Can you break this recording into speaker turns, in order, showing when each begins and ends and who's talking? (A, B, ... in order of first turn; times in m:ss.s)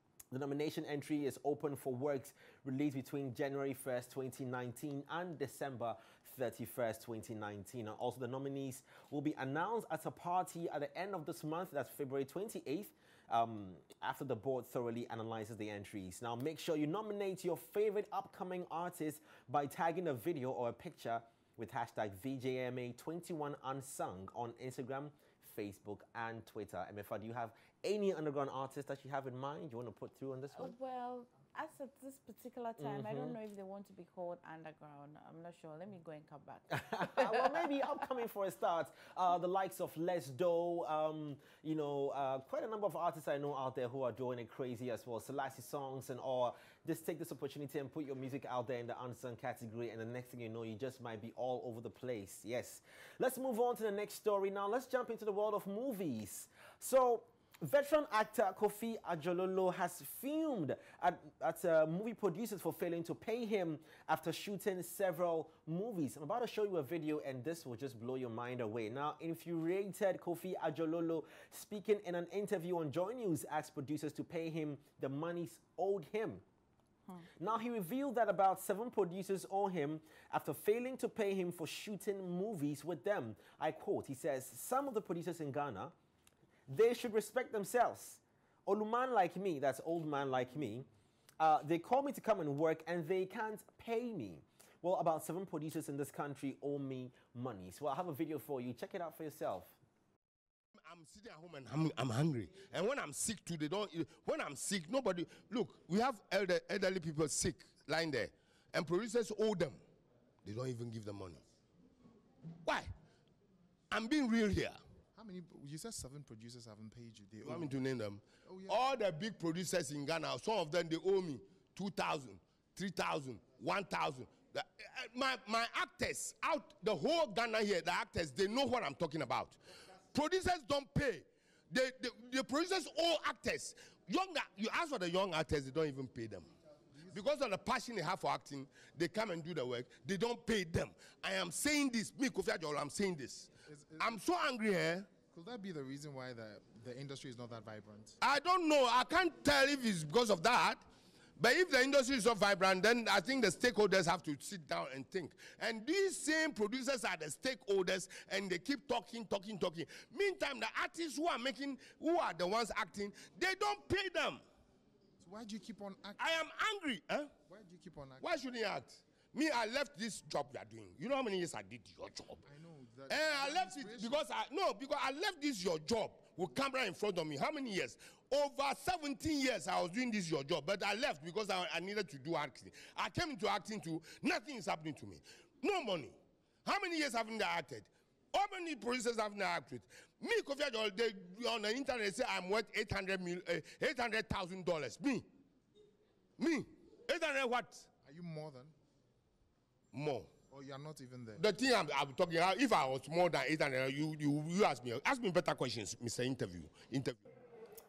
0:00.3-0:30.7 A
0:30.6-0:37.8 B
0:32.8-0:33.4 A
0:36.8-1:16.4 A
1:17.4-1:25.9 A
1:26.7-1:30.9 A
1:31.4-1:39.8 A
1:40.8-1:49.8 C
1:50.4-1:51.4 C
1:52.6-1:52.9 C
1:53.9-1:54.8 C
1:55.2-1:57.7 D
1:57.4-2:09.6 C
1:58.4-1:58.8 D
2:10.1-2:16.5 C
2:17.1-2:25.1 C
2:23.6-2:24.2 D
2:25.2-2:28.2 D
2:28.2-2:30.8 C
2:31.4-2:44.4 C
2:45.2-2:46.3 D
2:46.2-2:47.3 C
2:47.5-2:48.2 D
2:48.2-2:52.4 C
2:52.4-2:54.2 D
2:53.1-3:15.2 C
3:16.4-3:17.9 C
3:18.0-3:18.7 D
3:19.9-3:20.4 C
3:20.5-3:21.4 D
3:21.4-3:27.2 C